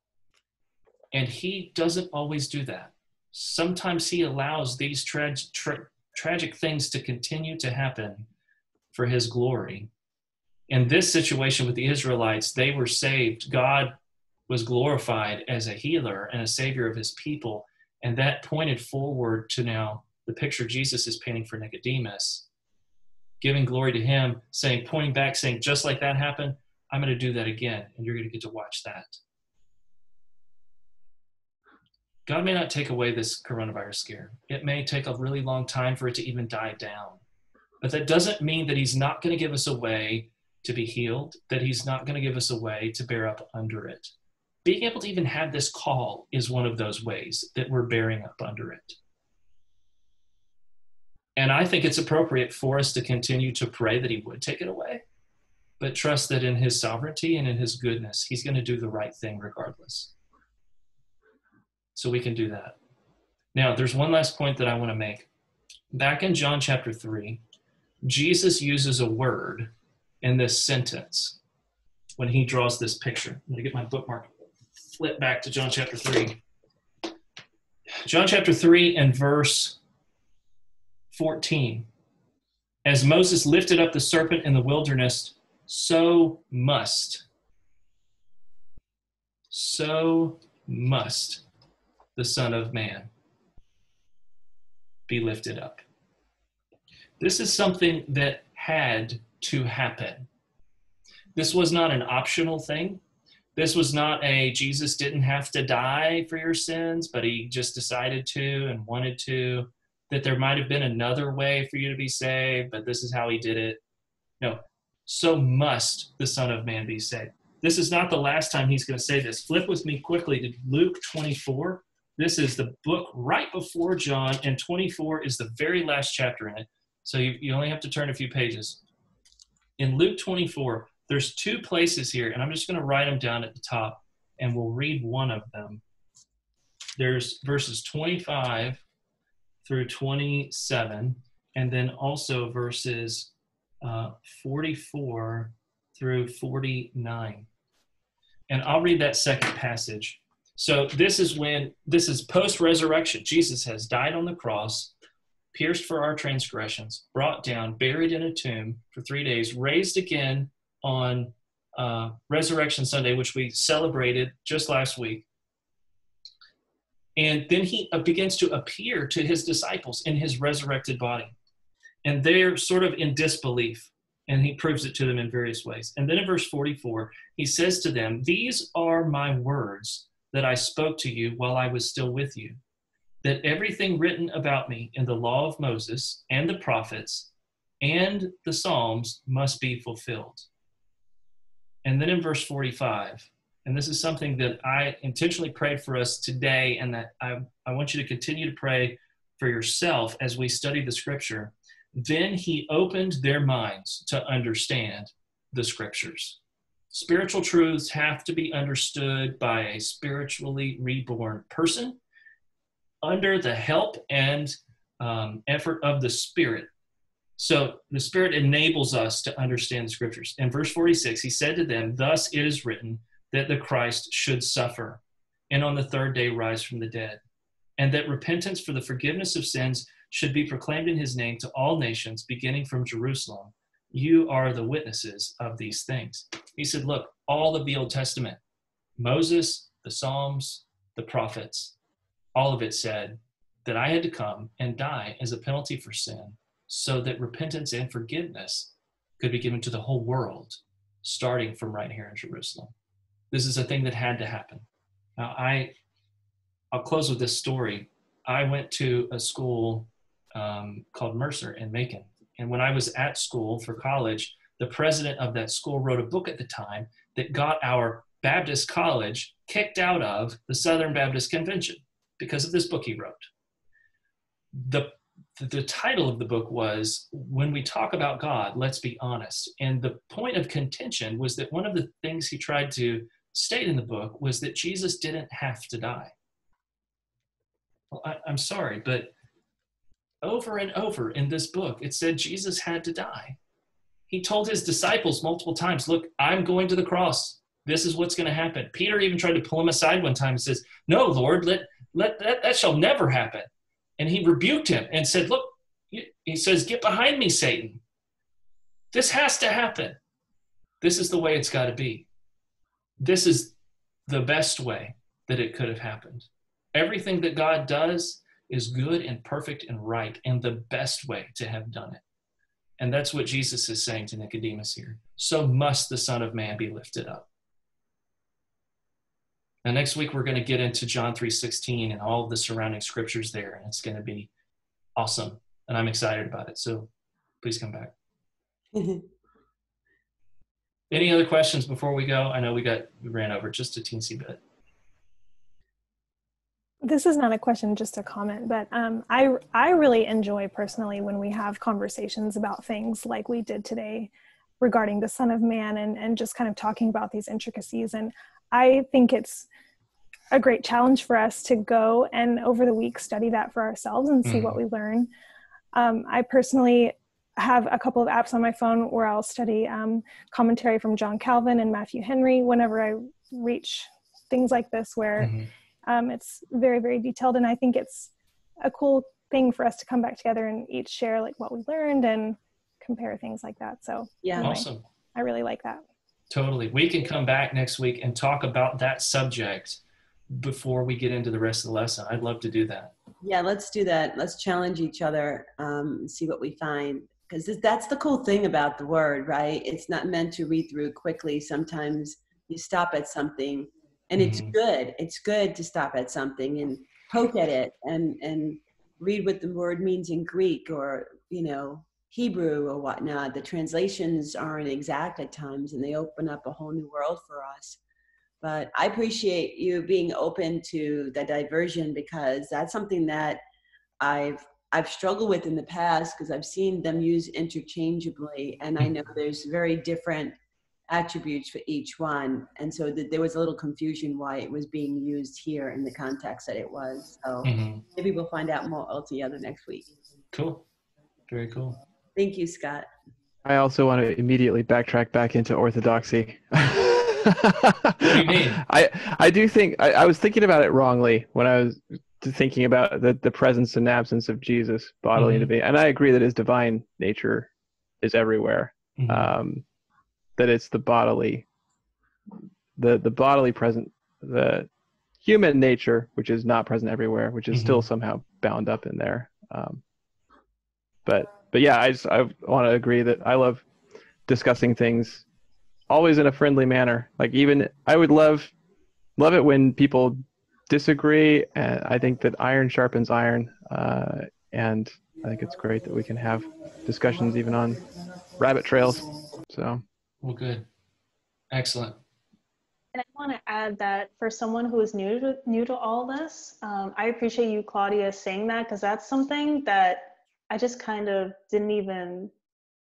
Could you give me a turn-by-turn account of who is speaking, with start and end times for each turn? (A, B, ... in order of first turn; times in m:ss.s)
0:01.1-0:08.3 A
0:08.9-0:09.9 A
0:10.7-0:14.0 A
0:14.5-0:22.5 A
0:23.4-0:29.2 A
0:32.3-0:37.2 A
0:37.8-0:44.1 A
0:44.6-0:49.0 A
0:51.4-0:55.0 A
0:55.8-1:00.1 A
1:02.0-1:02.8 A
1:03.6-1:05.3 A
1:05.9-1:07.4 A
1:08.0-1:09.7 A
1:10.2-1:11.4 A
1:12.2-1:14.3 A
1:14.9-1:16.4 A
1:18.0-1:19.8 A
1:21.1-1:21.9 A
1:22.8-1:27.3 A
1:29.5-1:31.4 A
1:32.2-1:33.1 A
1:35.1-1:35.8 A
1:37.2-1:40.3 A
1:41.4-1:43.0 A
1:43.6-1:53.8 A
1:54.4-2:08.8 A
2:09.8-2:15.8 A
2:17.0-2:18.8 A
2:19.6-2:27.5 A
2:28.5-2:34.9 A
2:35.5-2:45.3 A
2:47.2-2:51.3 A
2:52.0-3:02.6 A
3:03.2-3:10.5 A
3:11.8-3:26.4 A
3:26.9-3:32.0 A
3:33.0-3:36.7 A
3:37.4-3:47.2 A
3:47.8-3:58.4 A
3:59.0-4:01.8 A
4:02.4-4:12.7 A
4:13.3-4:14.7 A
4:15.2-4:15.7 A
4:16.7-4:33.3 A
4:34.5-4:46.1 A
4:47.9-4:49.1 A
4:50.2-4:53.4 A
4:54.1-5:07.8 A
5:08.9-5:10.0 A
5:10.8-5:12.1 A
5:13.0-5:13.5 A
5:14.1-5:22.0 A
5:22.8-5:27.3 A
5:29.6-5:34.3 A
5:35.0-5:36.9 A
5:37.4-5:37.9 A
5:38.8-5:39.0 B
5:40.9-5:44.4 A
5:46.8-5:59.5 C
6:00.3-6:05.1 C
6:04.2-6:04.6 A
6:05.7-6:18.1 C
6:15.2-6:15.5 A
6:18.6-6:25.8 C
6:24.2-6:24.6 B
6:24.4-6:24.8 A
6:26.3-6:32.9 A
6:33.2-6:57.8 B
6:44.2-6:44.6 A
6:58.4-7:03.4 B
7:04.0-7:10.4 B
7:10.9-7:19.9 B
7:17.4-7:17.8 A
7:20.3-7:20.6 A
7:21.3-7:21.8 A
7:22.2-7:22.9 B
7:23.4-7:37.5 D
7:28.0-7:28.6 A
7:35.2-7:35.5 A
7:38.0-7:39.6 D
7:39.0-7:39.3 A
7:40.4-7:41.4 D
7:42.8-7:44.7 D
7:45.2-7:49.8 D
7:47.5-7:47.9 A
7:51.1-7:53.7 D
7:54.3-7:55.2 D
7:55.9-7:58.5 D
7:59.2-8:07.8 D
8:08.4-8:09.8 D
8:10.2-8:10.7 A
8:11.5-8:12.0 A
8:12.9-8:22.3 E